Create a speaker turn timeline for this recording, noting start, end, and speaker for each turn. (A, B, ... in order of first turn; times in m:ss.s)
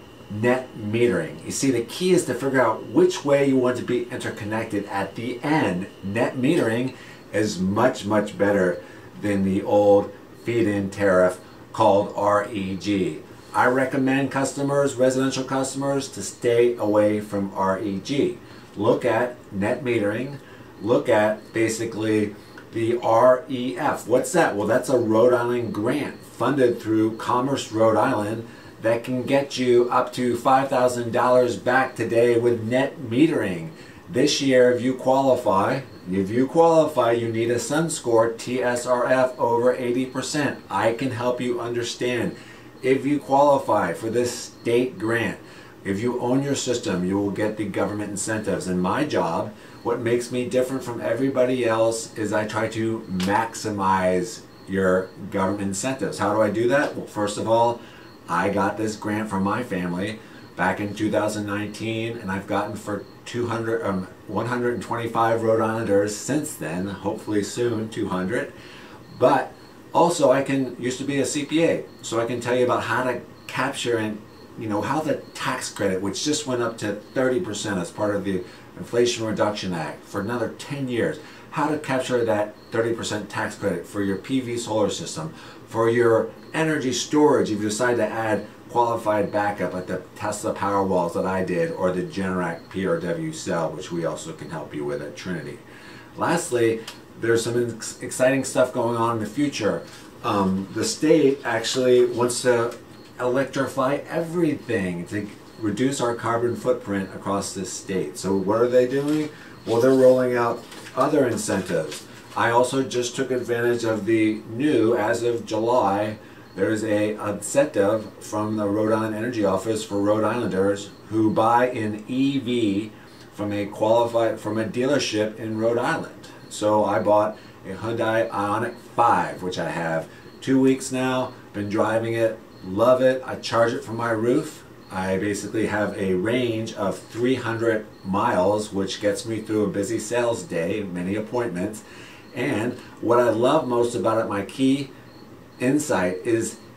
0:00.3-1:08.5 A
1:09.1-1:35.6 A
1:36.2-2:21.8 A
2:22.3-2:24.9 A
2:25.6-2:26.6 A